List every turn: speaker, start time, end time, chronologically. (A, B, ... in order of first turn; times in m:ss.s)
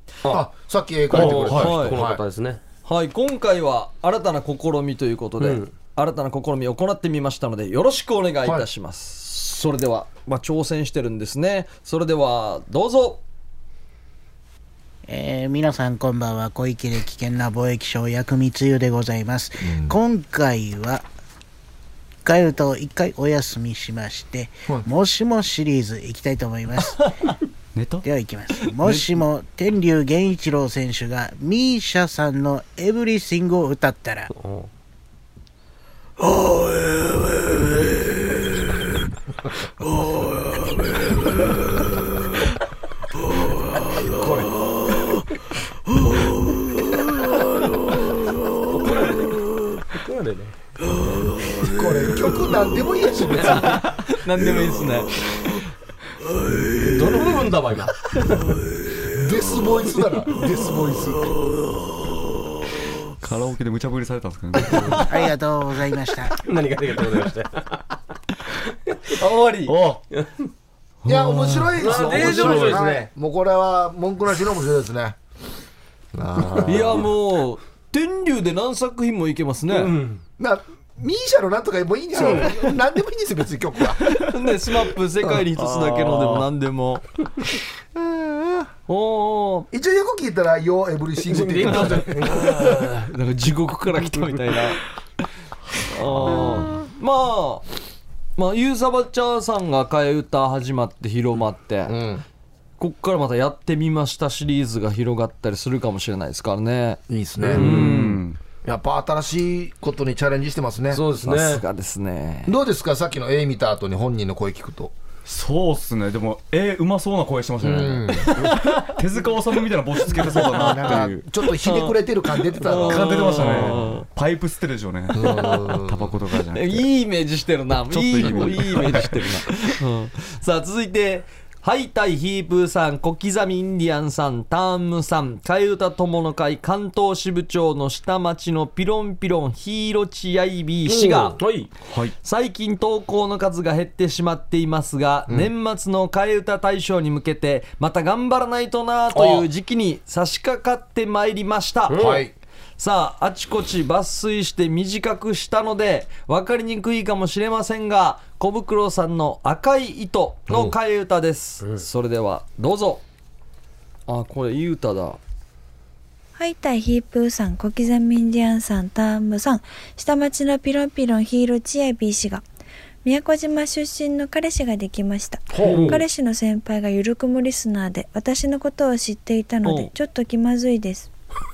0:00.3-0:02.2 A
0:01.1-0:01.8 B
0:01.1-0:02.6 C
0:01.5-0:02.0 D
0:02.8-0:13.2 D
0:05.4-0:05.7 C
0:15.1-0:21.0 E
0:19.6-0:20.0 A
0:22.2-0:27.0 E
0:27.8-0:28.1 B
0:28.0-0:34.3 E
0:34.3-0:34.7 C
0:44.0-0:44.5 A
0:48.7-0:50.6 C
0:51.6-0:53.8 A
0:53.4-0:53.7 C
0:53.8-0:55.2 D
0:56.8-0:58.1 C
0:59.0-1:01.4 A
1:03.2-1:05.1 B
1:05.1-1:06.4 E
1:06.4-1:07.8 C
1:09.2-1:09.8 D
1:09.7-1:10.0 B
1:11.0-1:12.8 B
1:11.1-1:15.2 A
1:11.5-1:12.1 D
1:11.8-1:13.1 C
1:16.1-1:17.1 A
1:16.6-1:19.9 D
1:19.7-1:20.2 C
1:20.4-1:24.4 A
1:22.2-1:22.7 D
1:24.1-1:27.0 D
1:25.3-1:26.5 B
1:28.0-1:28.7 A
1:28.9-1:29.7 D
1:29.7-1:32.5 A
1:31.2-1:32.9 C
1:31.7-1:34.8 D
1:35.8-1:37.7 D
1:36.2-1:36.6 B
1:36.2-1:36.5 A
1:38.4-1:42.0 D
1:41.9-1:42.2 A
1:42.8-1:47.0 D
1:47.1-1:47.6 A
1:47.5-1:48.0 C
1:47.5-1:48.2 D
1:47.5-1:48.4 B
1:48.6-1:51.0 A
1:50.9-1:51.6 C
1:51.2-1:52.6 D
1:52.5-1:54.9 A
1:55.3-2:01.2 B
1:57.6-1:58.5 A
1:58.3-1:58.9 D
2:00.1-2:03.8 A
2:00.4-2:01.0 D
2:01.6-2:02.0 D
2:02.5-2:04.1 D
2:02.8-2:06.9 B
2:05.1-2:06.2 A
2:05.2-2:05.6 D
2:06.5-2:21.4 D
2:07.9-2:09.4 B
2:20.9-2:21.7 C
2:21.8-2:22.2 B
2:22.2-2:32.0 D
2:31.9-2:32.3 C
2:32.0-2:32.3 A
2:32.8-2:43.0 D
2:40.5-2:40.8 A
2:44.1-2:45.2 D
2:46.4-2:52.4 F
2:53.0-3:01.1 F
2:55.6-2:56.0 C
2:55.6-2:56.0 D
2:59.6-2:59.9 D